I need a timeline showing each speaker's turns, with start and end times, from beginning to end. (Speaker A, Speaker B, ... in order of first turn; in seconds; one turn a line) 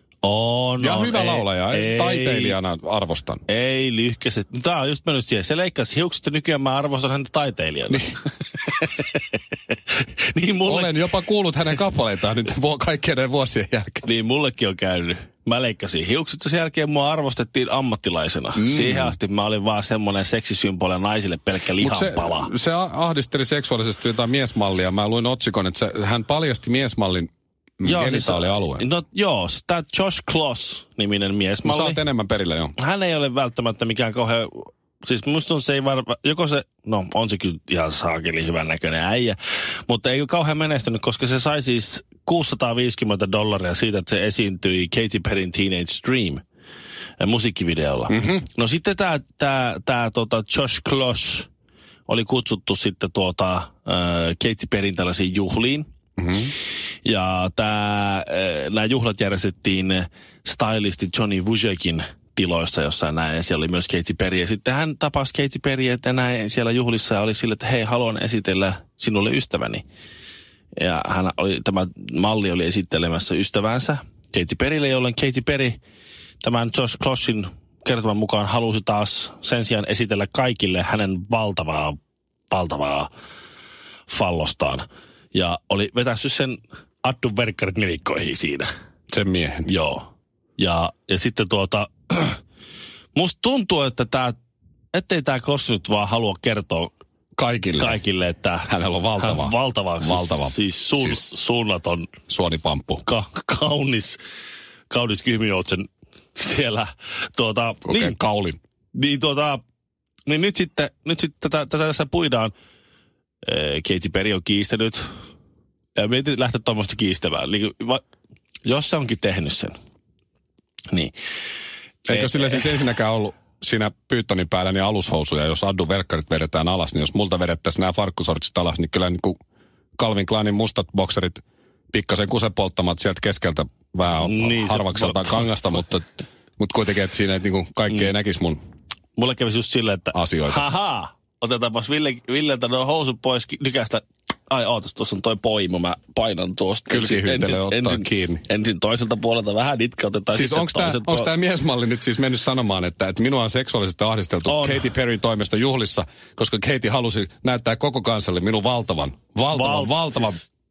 Speaker A: 0.2-2.6
Speaker B: 0.8-3.4
Speaker A: 3.5-11.0
Speaker B: 10.7-14.1
Speaker A: 14.0-22.5
Speaker B: 18.6-19.1
Speaker B: 21.8-28.8
Speaker A: 27.8-32.0
Speaker B: 31.6-32.8
Speaker A: 32.8-46.4
Speaker A: 47.2-51.5
Speaker B: 48.1-48.4
Speaker A: 52.1-55.9
Speaker B: 56.2-56.5
Speaker A: 57.0-69.8
Speaker A: 70.8-75.8
Speaker A: 76.4-82.0
Speaker A: 82.5-83.1
Speaker A: 84.1-88.7
Speaker B: 89.1-89.7
Speaker A: 89.7-90.1
Speaker A: 90.6-92.4
Speaker A: 93.2-94.4
Speaker A: 94.9-96.9
Speaker B: 97.4-98.0
Speaker A: 97.8-102.1
Speaker B: 98.7-101.3
Speaker B: 102.3-103.0
Speaker A: 103.0-104.2
Speaker A: 104.9-108.2
Speaker B: 107.9-108.6
Speaker A: 109.0-109.6
Speaker A: 110.3-112.5
Speaker A: 113.4-115.1
Speaker A: 116.0-118.0
Speaker A: 118.7-119.8
Speaker B: 122.1-129.4
Speaker A: 122.1-122.7
Speaker B: 130.0-138.6
Speaker A: 134.2-135.5
Speaker A: 139.2-151.3
Speaker B: 140.1-140.7
Speaker B: 146.9-148.4
Speaker B: 150.3-160.4
Speaker A: 154.5-154.9
Speaker A: 159.5-160.3